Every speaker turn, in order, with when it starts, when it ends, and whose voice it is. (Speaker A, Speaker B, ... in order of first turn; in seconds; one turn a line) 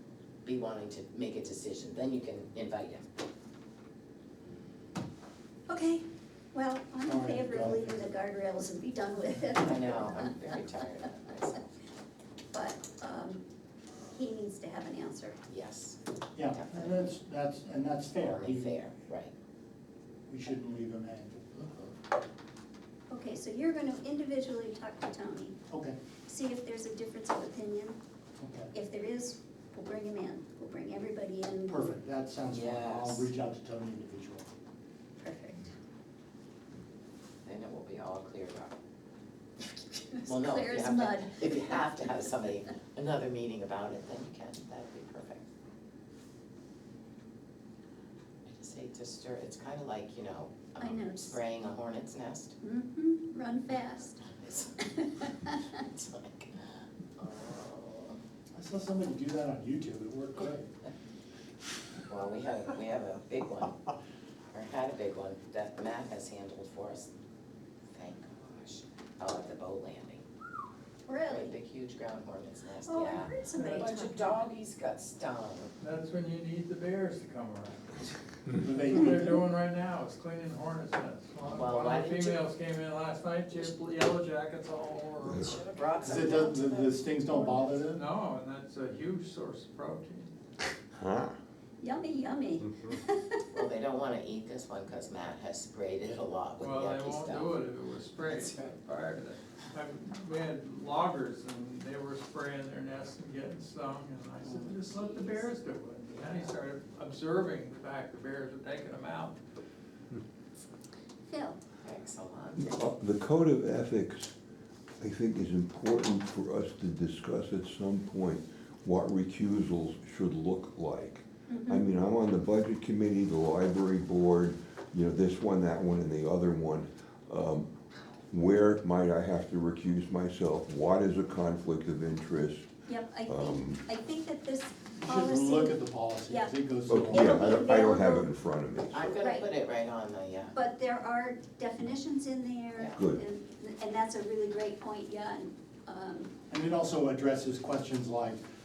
Speaker A: 0.4-3.1
Speaker B: 5.7-10.3
Speaker C: 7.0-8.1
Speaker A: 9.6-11.7
Speaker B: 12.5-13.4
Speaker B: 14.1-15.4
Speaker A: 15.5-16.0
Speaker C: 16.4-18.8
Speaker A: 16.5-16.9
Speaker A: 18.2-19.3
Speaker C: 20.3-21.6
Speaker A: 21.6-21.9
Speaker B: 23.1-25.6
Speaker C: 25.7-26.0
Speaker B: 26.3-28.0
Speaker C: 28.4-28.7
Speaker B: 28.7-32.0
Speaker C: 31.7-34.5
Speaker A: 32.5-33.3
Speaker B: 35.2-35.7
Speaker A: 37.4-38.8
Speaker B: 39.9-41.8
Speaker A: 40.2-45.5
Speaker A: 48.5-52.5
Speaker B: 50.8-51.4
Speaker B: 52.6-55.8
Speaker A: 54.2-56.7
Speaker A: 57.2-58.2
Speaker C: 58.5-60.7
Speaker A: 62.0-63.8
Speaker A: 64.5-67.1
Speaker A: 67.9-70.3
Speaker B: 71.1-71.5
Speaker A: 71.3-75.7
Speaker B: 72.9-74.3
Speaker D: 75.8-85.9
Speaker C: 78.6-79.4
Speaker A: 81.5-82.4
Speaker A: 85.3-87.1
Speaker C: 86.0-88.0
Speaker B: 87.3-87.7
Speaker D: 87.9-90.3
Speaker E: 90.9-91.4
Speaker B: 91.8-93.5
Speaker A: 93.5-97.5
Speaker D: 96.6-109.4
Speaker A: 98.2-98.7
Speaker A: 104.4-105.4
Speaker A: 106.1-106.5
Speaker B: 111.3-111.6
Speaker A: 111.8-112.9
Speaker E: 112.6-114.3
Speaker E: 115.0-127.7
Speaker B: 121.5-121.8
Speaker E: 128.3-132.7
Speaker B: 132.9-136.5
Speaker E: 133.2-133.8
Speaker C: 135.0-137.4
Speaker E: 136.9-139.1
Speaker B: 137.1-138.3
Speaker A: 138.9-140.6
Speaker B: 139.2-139.5
Speaker B: 140.5-146.3
Speaker E: 143.0-143.2
Speaker C: 146.5-148.4